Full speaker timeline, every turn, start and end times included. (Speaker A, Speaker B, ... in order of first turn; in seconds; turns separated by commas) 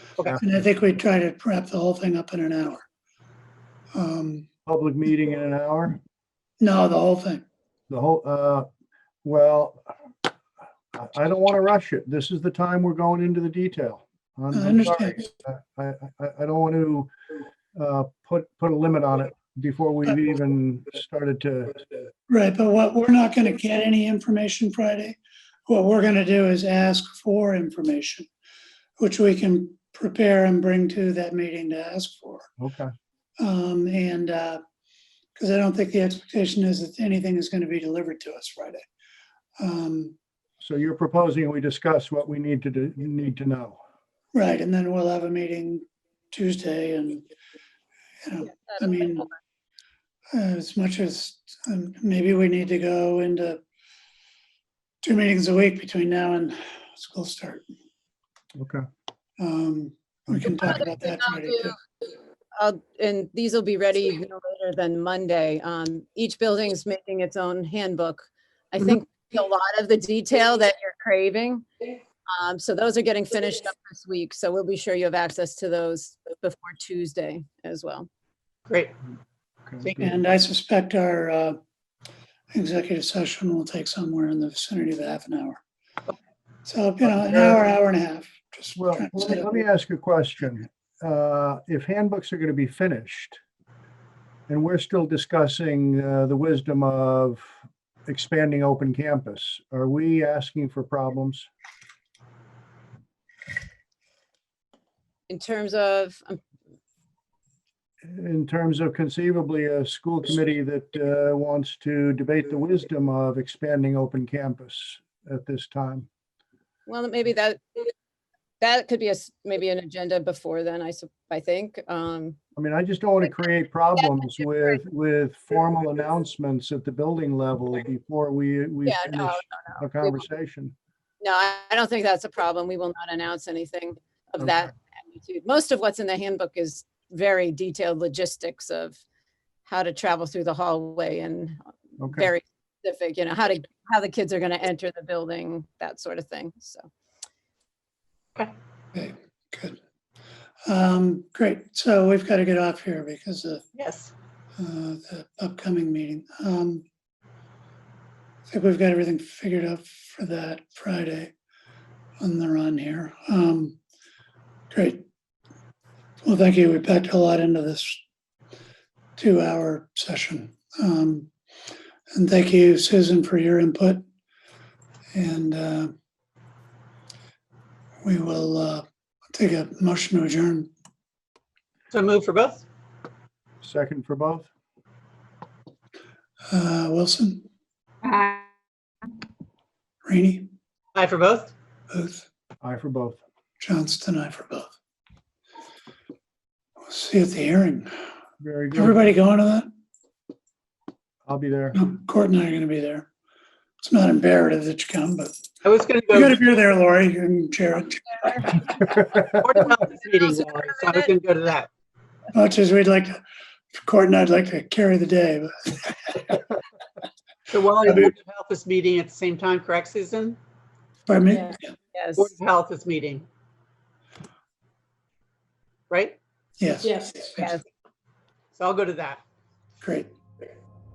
Speaker A: 0.3-2.8, Speaker A: 3.9-4.5, Speaker B: 4.7-6.0, Speaker A: 6.6-7.4, Speaker B: 7.9-8.7, Speaker B: 9.2-9.8, Speaker B: 10.9-17.1, Speaker A: 14.5-15.3, Speaker B: 17.8-21.8, Speaker A: 22.3-28.3, Speaker A: 29.0-32.5, Speaker B: 32.6-32.9, Speaker A: 33.4-34.6, Speaker A: 35.4-38.8, Speaker A: 39.6-40.1, Speaker B: 40.6-43.8, Speaker A: 44.3-47.2, Speaker A: 48.2-49.3, Speaker A: 50.3-53.6, Speaker A: 55.0-57.6, Speaker B: 58.5-58.9, Speaker A: 59.4-61.8, Speaker C: 60.7-61.7, Speaker C: 62.5-71.6, Speaker C: 72.3-78.1, Speaker D: 78.7-78.9, Speaker D: 79.8-80.1, Speaker A: 79.9-81.6, Speaker A: 82.5-85.6, Speaker A: 86.7-89.5, Speaker B: 87.2-87.5, Speaker B: 88.8-93.4, Speaker B: 94.5-97.5, Speaker B: 98.1-101.5, Speaker C: 105.3-106.4, Speaker B: 108.0-116.1, Speaker C: 116.9-117.9, Speaker C: 118.6-122.4, Speaker B: 122.6-130.7, Speaker C: 124.0-124.5, Speaker C: 128.8-130.2, Speaker C: 131.2-139.0, Speaker C: 139.7-146.9, Speaker B: 142.0-142.3, Speaker A: 148.9-149.8, Speaker A: 150.7-153.7, Speaker D: 153.7-154.1, Speaker A: 154.6-156.8, Speaker A: 158.5-161.3, Speaker A: 162.2-163.8, Speaker A: 164.7-165.1, Speaker A: 166.2-168.0, Speaker A: 169.2-171.3, Speaker A: 172.1-174.0, Speaker A: 175.1-175.9, Speaker A: 178.0-180.7, Speaker D: 181.9-182.7, Speaker B: 183.6-184.5, Speaker A: 186.5-187.4, Speaker A: 190.0-190.5, Speaker D: 190.9-191.5, Speaker A: 191.9-192.2, Speaker B: 192.6-193.2, Speaker A: 193.6-194.7, Speaker A: 196.9-197.9, Speaker B: 198.4-199.0, Speaker A: 198.8-199.7, Speaker B: 201.2-201.8, Speaker A: 201.7-203.1, Speaker A: 203.8-205.3, Speaker D: 205.6-206.4, Speaker A: 206.1-208.7, Speaker D: 209.1-211.7, Speaker C: 209.9-211.1, Speaker A: 212.3-213.2, Speaker A: 213.7-216.3, Speaker D: 217.5-220.4, Speaker A: 221.1-221.7, Speaker C: 221.3-222.3, Speaker D: 222.2-223.3, Speaker D: 225.9-226.2, Speaker A: 226.6-227.4, Speaker C: 227.3-227.6, Speaker D: 228.5-229.2, Speaker A: 229.8-230.1